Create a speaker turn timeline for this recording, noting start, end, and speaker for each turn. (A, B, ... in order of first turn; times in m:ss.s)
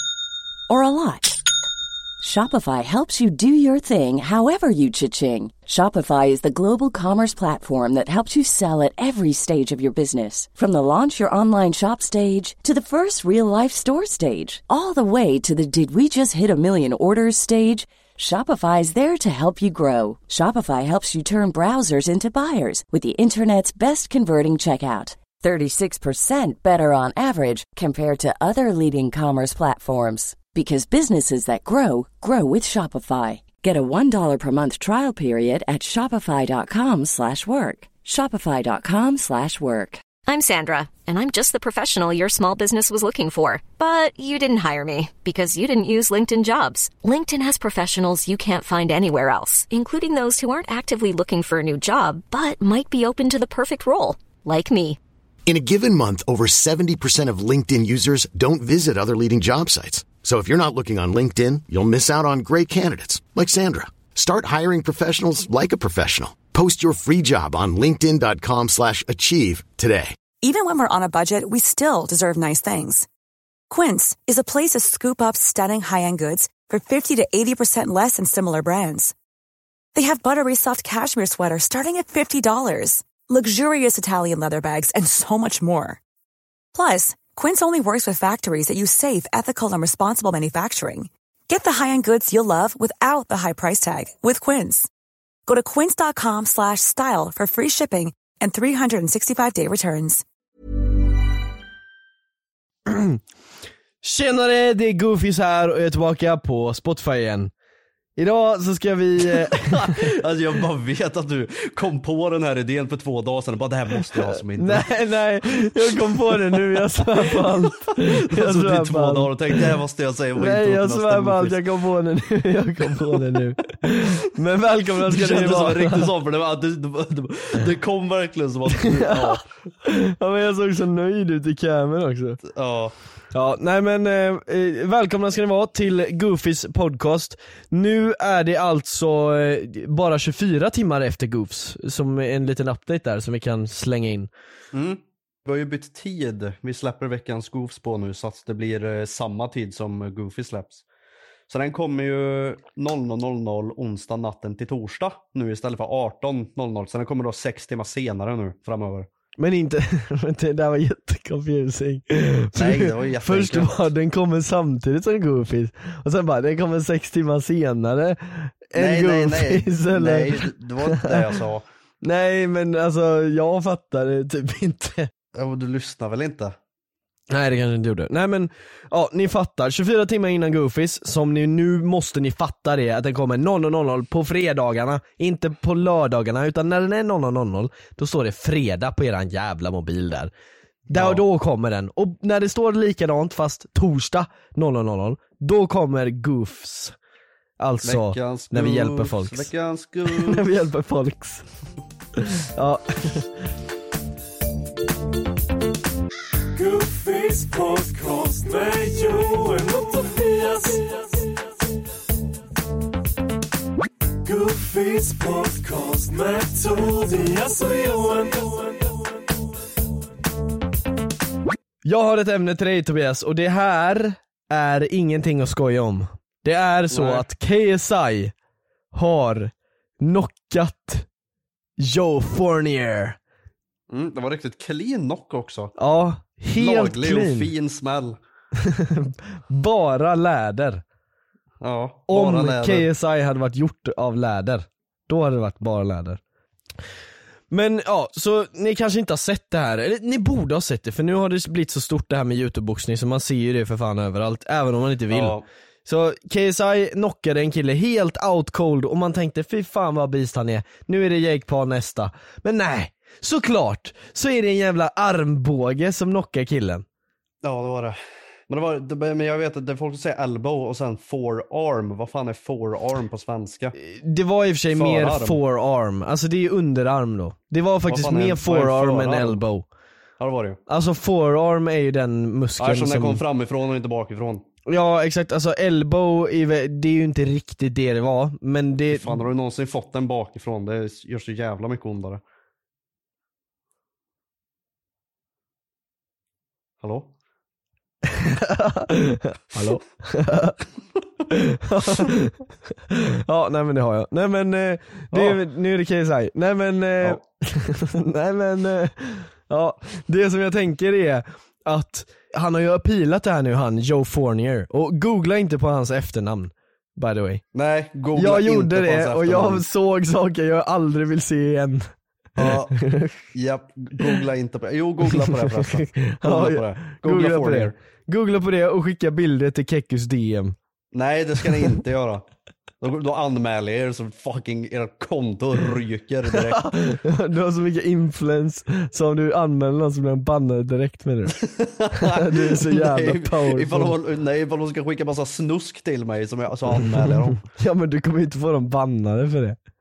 0:00.7-0:01.4 A
0:02.2-0:40.0 A
0:40.2-0:55.0 B
0:55.4-1:10.2 C
1:10.4-1:13.1 D
1:13.7-1:19.1 D
1:20.0-1:26.0 D
1:26.7-1:34.9 D
1:35.5-1:40.2 D
1:42.9-1:43.2 E
1:44.0-1:47.5 E
1:48.2-1:50.2 E
1:49.3-1:54.8 F
1:54.2-1:59.6 E
1:55.9-2:01.6 F
2:00.4-2:06.1 E
2:05.0-2:09.5 F
2:08.8-2:12.4 E
2:12.5-2:13.0 F
2:13.3-2:24.3 E
2:24.7-2:30.8 F
2:31.5-2:39.1 F
2:39.4-2:51.3 E
2:42.5-2:43.9 F
2:48.8-2:51.6 F
2:52.0-2:55.1 E
2:55.3-2:56.6 F
2:57.3-3:10.3 E
3:10.9-3:17.0 E
3:10.9-3:11.2 F
3:17.6-3:19.5 E
3:17.8-3:20.4 F
3:20.1-3:21.4 E
3:22.2-3:23.3 E
3:26.6-3:31.3 G
3:34.2-3:39.2 G
3:41.8-3:48.3 E
3:46.9-3:47.3 F
3:48.9-3:51.1 E
3:51.8-3:53.2 E
3:53.9-3:55.7 F
3:55.8-3:57.5 E
3:56.6-3:58.2 F
3:58.6-4:00.8 E
4:01.6-4:02.9 F
4:02.1-4:06.2 E
4:07.5-4:26.8 E
4:15.1-4:15.4 F
4:27.4-4:28.0 F
4:28.5-4:33.8 F
4:33.8-4:39.7 E
4:34.7-4:35.4 F
4:37.9-4:39.4 F
4:40.2-4:40.6 F
4:40.7-4:43.2 E
4:42.6-4:44.5 F
4:44.7-4:49.2 E
4:48.9-4:52.2 F
4:56.8-4:57.1 F
4:58.1-5:00.6 E
5:01.3-5:17.4 E
5:05.1-5:05.4 F
5:17.5-5:19.6 F
5:18.1-5:21.9 E
5:22.4-5:22.8 F
5:22.4-5:23.2 E
5:23.3-5:27.8 F
5:25.1-5:30.6 E
5:30.9-5:32.2 F
5:31.5-5:31.7 E
5:32.8-5:36.7 F
5:36.3-5:41.4 E
5:41.4-5:47.4 F
5:41.9-5:44.0 E
5:46.9-5:49.6 E